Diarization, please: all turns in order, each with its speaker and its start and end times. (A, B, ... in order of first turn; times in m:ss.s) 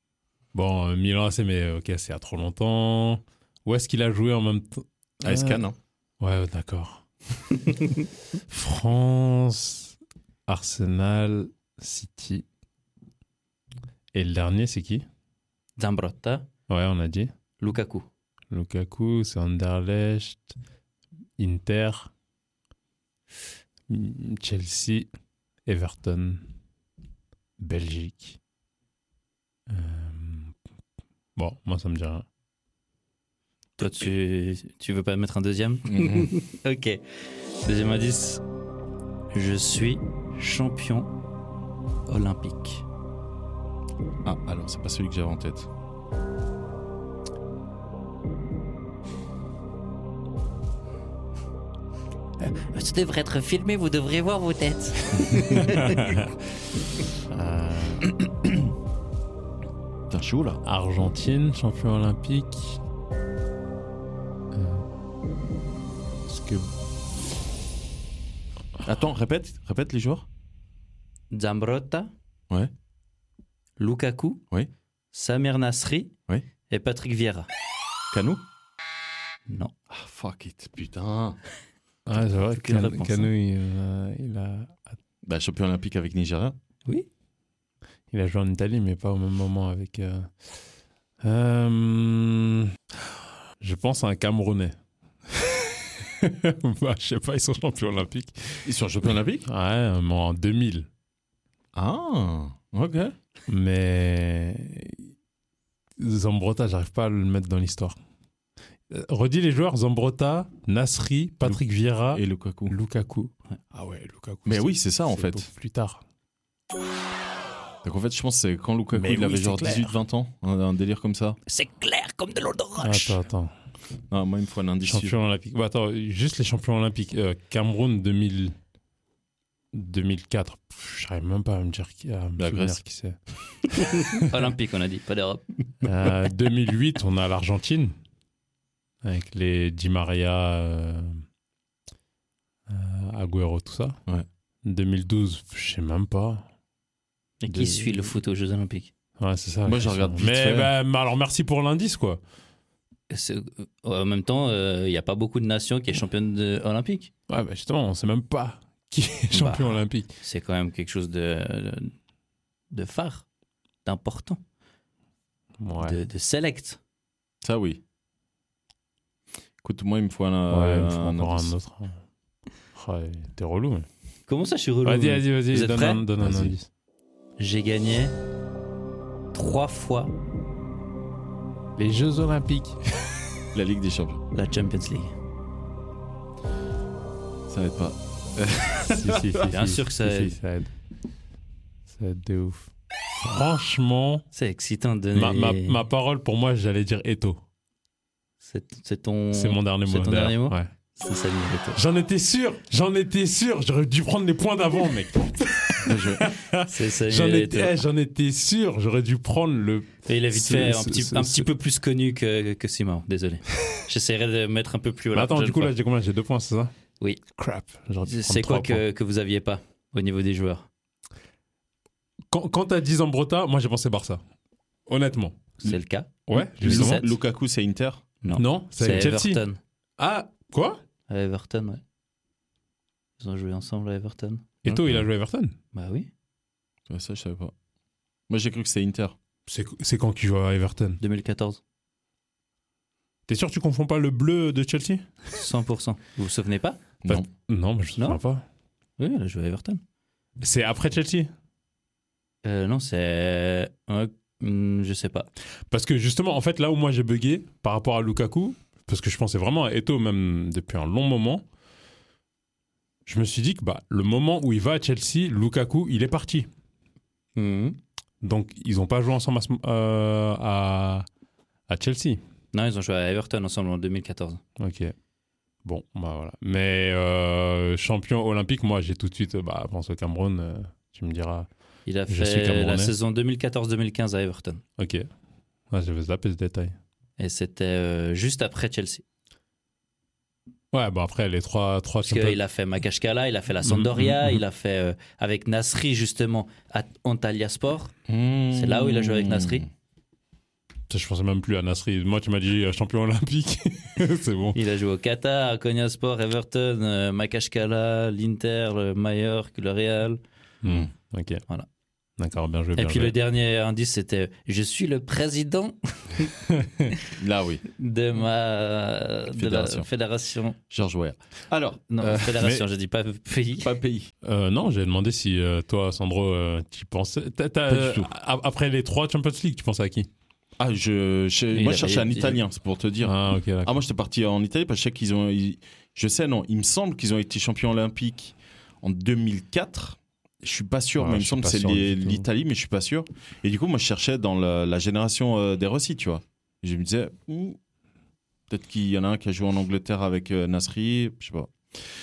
0:00.5-0:05.6 A
0:05.2-0:05.8 B
0:06.2-0:07.9 A
0:08.5-0:09.9 A
0:10.5-0:12.4 A
0:14.1-0:15.0 A
0:15.8-0:16.5 C
0:16.7-0:17.3 A
0:17.6-0:18.1 C
0:18.5-0:20.5 A
0:21.4-0:22.1 A
0:23.9-0:25.1 A
0:25.7-0:26.4 A
0:27.6-0:28.4 A
0:29.7-0:30.5 A
0:31.4-0:32.2 A
0:33.8-0:38.4 C
0:35.9-0:36.3 B
0:39.3-0:41.1 C
0:42.1-0:42.8 C
0:44.2-0:45.7 B
0:52.4-0:56.0 C
0:55.2-0:56.2 A
0:57.3-0:58.1 A
1:00.1-1:00.6 B
1:00.6-1:02.8 A
1:04.5-1:04.8 A
1:06.3-1:06.7 A
1:08.8-1:10.2 B
1:11.3-1:12.1 C
1:13.8-1:14.4 C
1:15.1-1:16.1 C
1:16.7-1:17.5 C
1:18.1-1:18.4 B
1:19.5-1:19.7 C
1:19.9-1:21.4 B
1:22.0-1:25.0 A
1:22.1-1:23.3 C
1:25.2-1:26.6 B
1:28.1-1:30.3 A
1:31.2-1:32.7 A
1:33.6-1:34.7 A
1:35.3-1:38.6 A
1:38.6-1:39.5 B
1:39.4-1:40.9 A
1:41.7-1:43.1 B
1:43.5-1:45.1 A
1:46.0-1:48.0 A
1:48.9-1:56.0 A
1:52.1-1:52.7 B
1:54.4-1:55.5 B
1:57.8-2:01.4 B
1:58.9-2:00.0 A
2:01.4-2:03.2 C
2:02.8-2:03.5 A
2:04.1-2:05.2 B
2:04.8-2:08.6 A
2:09.7-2:14.3 A
2:12.4-2:12.8 B
2:14.2-2:15.6 C
2:15.8-2:18.0 A
2:19.0-2:21.2 A
2:22.7-2:24.0 A
2:24.6-2:26.4 A
2:27.4-2:28.9 C
2:27.5-2:28.1 A
2:29.2-2:32.2 A
2:29.6-2:30.7 B
2:33.1-2:37.1 C
2:37.3-2:40.1 A
2:39.3-2:41.9 C
2:42.7-2:43.2 C
2:43.8-2:44.4 C
2:45.6-2:46.0 A
2:45.8-2:46.8 C
2:47.4-2:47.8 B
2:49.6-2:51.5 B
2:50.5-2:52.0 A
2:52.7-2:53.9 A
2:54.3-2:56.0 C
2:54.8-2:56.7 A
2:56.2-2:56.5 B
2:57.4-2:58.2 C
2:59.3-3:00.1 C
3:01.8-3:03.2 A
3:03.5-3:04.2 B
3:04.3-3:05.1 C
3:07.5-3:09.4 B
3:08.8-3:10.7 A
3:09.4-3:10.4 C
3:11.9-3:14.2 A
3:14.3-3:15.8 C
3:15.1-3:17.4 A
3:18.4-3:21.8 C
3:19.3-3:20.7 A
3:21.7-3:31.5 A
3:25.8-3:26.2 B
3:26.6-3:27.8 C
3:30.0-3:35.7 C
3:35.1-3:36.7 A
3:37.4-3:38.8 A
3:38.0-3:40.7 C
3:42.3-3:44.2 A
3:44.9-3:45.4 A
3:45.6-3:47.1 C
3:46.3-3:47.1 A
3:46.3-3:48.0 B
3:48.2-3:49.6 C
3:48.3-3:49.4 A
3:50.0-3:50.8 A
3:51.1-3:51.8 C
3:53.2-3:54.4 C
3:54.6-3:55.5 A
3:54.7-3:55.1 B
3:55.7-3:56.1 C
3:56.9-3:57.5 B
3:58.3-3:59.2 B
3:59.5-4:01.0 A
4:01.0-4:01.6 C
4:03.3-4:05.0 A
4:05.3-4:06.8 C
4:07.1-4:08.4 A
4:09.0-4:09.8 C
4:10.4-4:11.3 A
4:12.4-4:15.3 C
4:15.7-4:21.4 A
4:23.0-4:26.5 A
4:27.4-4:27.8 C
4:28.2-4:31.1 A
4:31.7-4:32.2 A
4:32.5-4:34.4 C
4:34.6-4:34.9 A
4:35.6-4:41.5 A
4:41.8-4:44.6 C
4:42.1-4:42.9 A
4:44.8-4:45.0 A
4:45.7-4:46.7 A
4:47.2-4:49.0 C
4:50.7-4:52.4 A
4:52.0-4:57.9 C
4:53.6-4:54.4 A
4:58.1-4:59.7 B
4:58.5-4:59.6 C
5:00.9-5:04.6 A
5:04.5-5:10.2 C
5:10.6-5:11.4 A
5:10.6-5:10.9 B
5:12.2-5:13.1 A
5:12.8-5:16.3 C
5:17.1-5:17.6 B
5:17.7-5:20.6 C
5:19.3-5:19.9 B
5:20.7-5:22.4 B
5:21.9-5:23.7 C
5:23.6-5:24.1 B
5:24.2-5:30.1 A
5:27.7-5:28.1 B
5:30.6-5:47.6 B
5:31.5-5:32.4 C
5:33.0-5:33.7 A
5:41.0-5:42.2 A
5:48.5-5:51.5 B